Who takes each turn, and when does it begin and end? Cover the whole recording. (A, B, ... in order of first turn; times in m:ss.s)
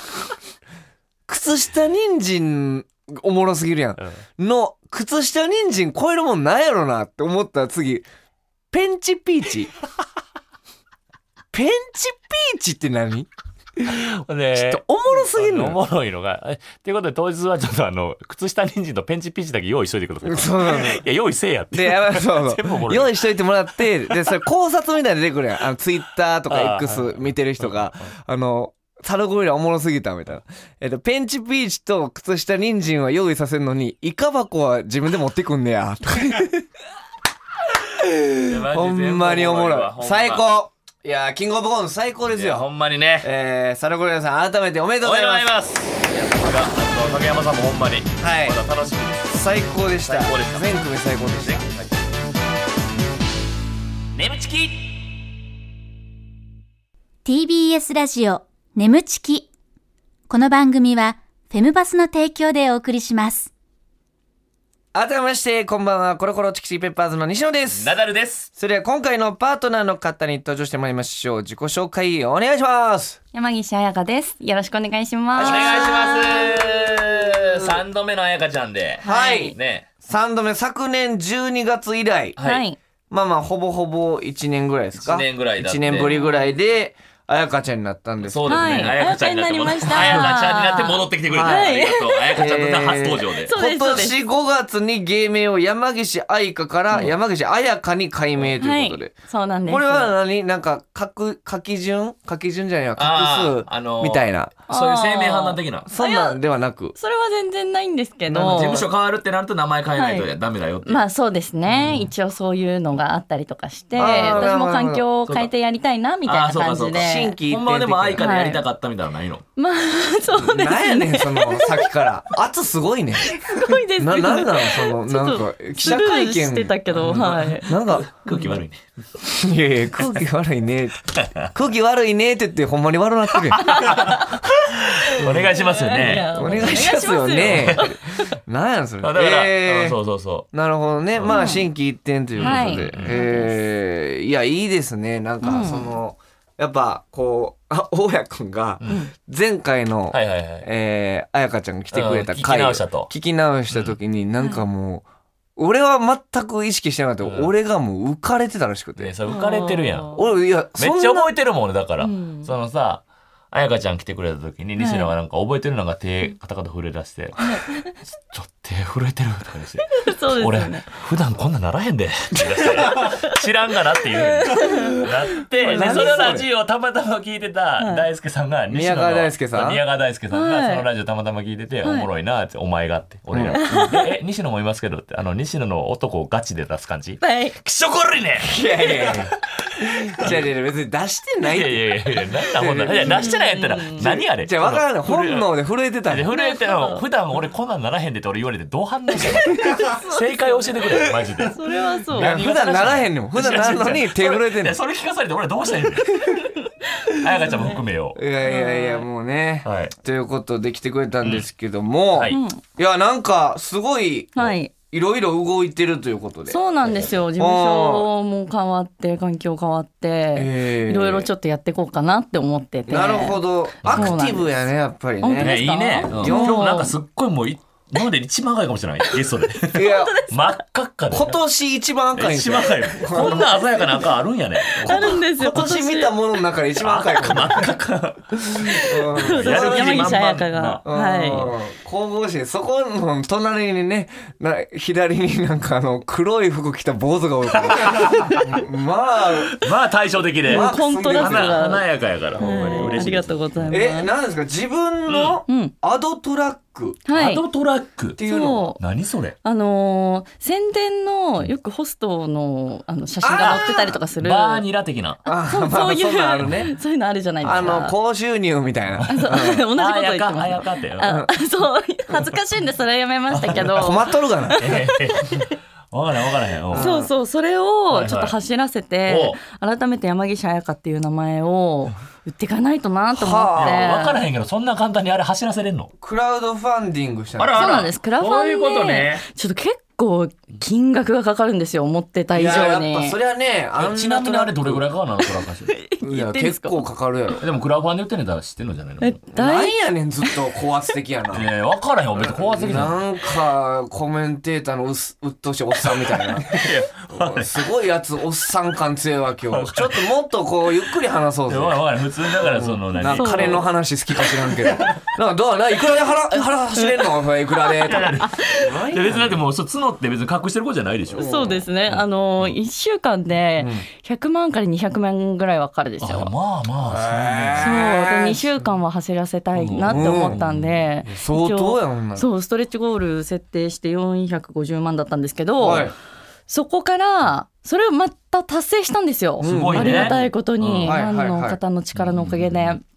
0:01.3-0:08.0 A
0:08.7-0:09.7 A
0:11.5-0:15.8 A
0:13.9-0:23.3 B
0:20.2-0:21.0 A
0:21.7-0:36.7 A
0:26.5-0:28.1 B
0:37.7-0:42.6 A
0:38.4-0:40.4 B
0:42.3-0:43.3 B
0:43.2-0:45.5 A
0:45.0-0:52.0 B
0:48.2-0:48.6 A
0:49.3-0:51.6 A
0:54.1-0:55.1 B
0:57.2-0:59.5 C
1:00.3-1:03.5 C
1:04.9-1:07.9 A
1:07.7-1:08.5 B
1:08.6-1:13.2 A
1:13.3-1:16.4 D
1:15.3-1:17.8 A
1:15.4-1:19.9 B
1:19.0-1:19.5 D
1:19.0-1:22.4 A
1:22.4-1:22.6 B
1:22.4-1:22.8 D
1:23.1-1:28.9 A
1:25.0-1:26.3 B
1:28.2-1:33.5 B
1:28.5-1:32.4 D
1:31.3-1:31.7 A
1:32.3-1:39.1 A
1:33.4-1:34.2 D
1:38.6-1:40.1 D
1:39.7-1:44.5 A
1:43.0-1:45.9 B
1:44.7-1:46.4 D
1:45.8-1:46.9 A
1:46.9-1:48.8 D
1:48.3-1:48.9 A
1:48.4-1:51.0 B
1:50.0-1:50.3 D
1:50.8-1:57.4 D
1:51.7-1:52.0 A
1:54.0-1:54.6 B
1:54.0-1:55.0 A
1:56.2-1:59.4 B
1:56.9-1:58.2 A
1:58.2-1:58.6 D
1:59.6-2:01.9 D
2:00.4-2:03.4 A
2:03.2-2:07.7 D
2:04.0-2:08.1 A
2:07.0-2:08.8 B
2:08.3-2:08.5 D
2:09.2-2:13.9 A
2:11.1-2:11.5 B
2:13.5-2:16.9 B
2:13.6-2:18.0 D
2:15.2-2:20.0 A
2:17.4-2:17.9 B
2:19.0-2:20.5 B
2:20.5-2:35.0 A
2:21.1-2:21.5 B
2:21.3-2:21.6 D
2:22.4-2:23.2 B
2:22.4-2:23.5 D
2:25.4-2:25.9 D
2:30.1-2:30.7 B
2:31.9-2:33.1 B
2:33.7-2:34.0 B
2:34.4-2:34.6 D
2:35.6-2:39.1 A
2:37.2-2:37.5 B
2:39.0-2:40.2 B
2:39.3-2:40.2 D
2:40.1-2:41.3 A
2:40.8-3:10.4 B
2:42.0-2:42.5 D
2:44.8-2:45.1 D
2:47.4-2:47.9 D
2:49.9-2:50.9 D
2:52.4-2:53.0 A
2:52.9-2:53.3 D
2:54.1-2:55.0 D
2:55.6-2:56.4 D
2:55.6-2:56.5 A
2:57.8-2:58.0 D
2:58.7-2:59.8 A
3:00.3-3:00.8 D
3:03.3-3:03.8 A
3:03.5-3:04.1 D
3:07.2-3:07.6 D
3:08.4-3:13.4 A
3:11.4-3:15.5 B
3:13.0-3:14.0 D
3:14.0-3:16.3 A
3:16.1-3:26.4 B
3:16.3-3:17.0 D
3:19.2-3:20.0 A
3:19.9-3:20.7 D
3:20.9-3:21.3 A
3:21.5-3:22.4 D
3:22.1-3:24.8 A
3:27.0-3:28.2 B
3:27.1-3:27.8 D
3:28.2-3:36.6 A
3:28.4-3:29.0 D
3:29.6-3:29.9 B
3:32.1-3:32.4 B
3:32.3-3:32.6 D
3:34.4-3:34.7 D
3:36.5-3:44.5 D
3:37.4-3:38.1 A
3:40.3-3:41.3 A
3:42.9-3:46.6 A
3:43.8-3:44.2 B
3:45.2-3:46.9 D
3:45.4-3:51.4 B
3:49.7-3:50.1 A
3:49.8-3:50.4 D
3:51.1-3:53.6 A
3:52.2-3:55.2 B
3:53.2-3:53.4 D
3:54.6-3:56.2 D
3:54.8-3:57.7 A
3:56.8-4:00.8 B
3:58.4-4:00.2 A
3:58.6-4:01.5 D
4:00.8-4:09.6 A
4:07.5-4:08.6 B
4:09.5-4:13.8 B
4:10.4-4:11.6 A
4:10.4-4:11.8 D
4:12.4-4:13.0 A
4:12.4-4:14.1 D
4:13.7-4:17.0 A
4:15.1-4:15.4 B
4:15.5-4:15.7 D
4:17.1-4:17.4 D
4:17.1-4:18.2 B
4:18.2-4:18.7 A
4:18.2-4:18.8 D
4:18.8-4:19.4 B
4:19.4-4:24.6 D
4:23.2-4:24.0 A
4:23.4-4:25.2 B
4:25.2-4:26.7 A
4:25.3-4:27.9 D
4:27.4-4:29.6 A
4:27.5-4:27.7 B
4:29.1-4:35.5 D
4:29.7-4:31.1 B
4:33.3-4:33.7 B
4:33.7-4:34.7 A
4:34.5-4:36.9 B
4:36.7-4:37.1 A
4:36.7-4:44.2 D
4:37.9-4:38.4 B
4:39.1-4:39.4 B
4:43.1-4:44.1 A
4:43.6-4:45.9 B
4:46.0-4:47.7 A
4:47.4-4:49.2 B
4:47.5-4:53.2 D
4:52.3-4:54.8 A
4:53.8-4:55.7 B
4:55.7-4:56.8 D
4:56.0-4:57.4 A
4:57.4-4:59.2 B
4:59.0-5:00.3 D
4:59.3-5:01.5 A
5:01.3-5:03.0 B
5:02.2-5:11.8 A
5:05.9-5:07.7 B
5:09.5-5:10.1 B
5:11.5-5:13.7 B
5:12.4-5:19.4 A
5:13.0-5:13.7 D
5:14.2-5:15.0 B
5:17.8-5:21.3 B
5:18.2-5:18.7 D
5:21.1-5:21.6 A
5:21.2-5:26.3 D
5:21.9-5:22.5 B
5:23.6-5:23.8 A
5:26.0-5:27.8 B
5:26.9-5:28.6 A
5:27.6-5:35.9 D
5:29.5-5:30.8 B
5:29.8-5:30.4 A
5:31.0-5:32.3 A
5:35.6-5:35.9 A
5:36.5-5:42.8 D
5:39.4-5:40.3 A
5:39.4-5:41.0 B
5:40.8-5:41.6 A
5:41.9-5:42.8 B